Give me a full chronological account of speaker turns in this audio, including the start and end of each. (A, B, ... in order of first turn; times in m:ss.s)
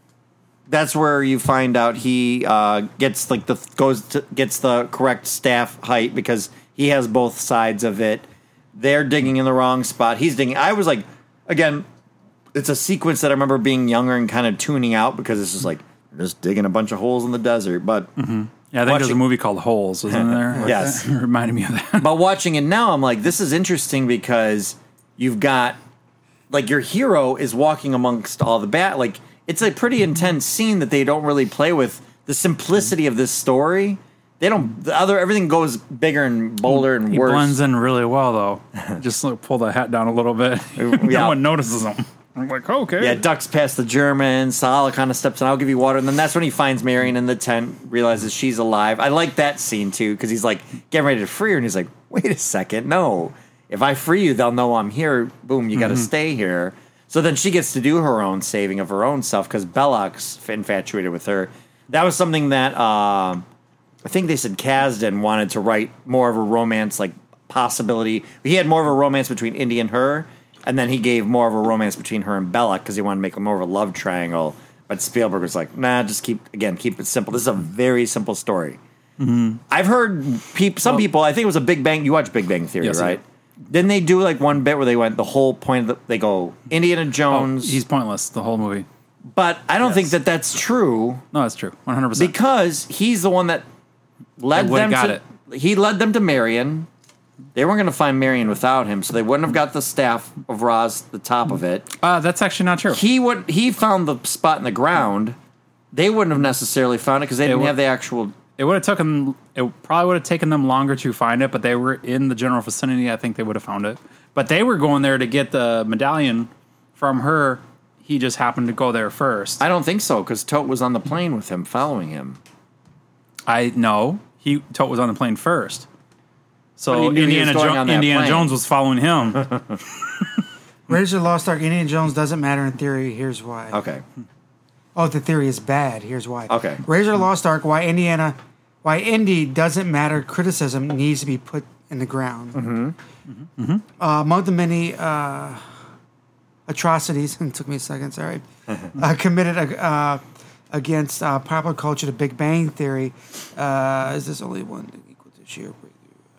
0:00.7-0:11.8 A
0:12.5-0:18.1 A
0:18.2-0:22.1 B
0:18.9-0:19.2 A
0:20.1-0:21.0 A
0:22.0-0:25.8 A
0:26.5-0:37.6 A
0:36.7-0:43.2 B
0:40.8-0:41.4 A
0:43.0-1:03.4 A
1:04.0-1:18.8 A
1:19.2-1:19.6 B
1:19.7-1:27.8 A
1:22.8-1:23.2 B
1:27.3-1:28.9 B
1:29.3-1:31.2 A
1:31.3-1:32.3 B
1:32.2-1:33.6 A
1:34.4-1:36.9 A
1:34.5-1:35.2 B
1:37.6-1:41.9 A
1:42.0-1:43.0 B
1:42.9-1:45.4 A
1:45.9-1:48.4 A
1:47.4-1:47.7 B
1:48.6-1:59.6 B
1:59.6-2:02.4 A
2:03.5-2:05.9 B
2:06.8-2:09.5 B
2:06.9-2:08.6 A
2:10.9-2:13.8 C
2:13.7-2:14.0 A
2:15.0-2:22.6 C
2:16.5-2:16.8 A
2:22.6-2:23.0 A
2:23.6-2:23.8 B
2:24.0-2:25.6 C
2:26.7-2:36.0 C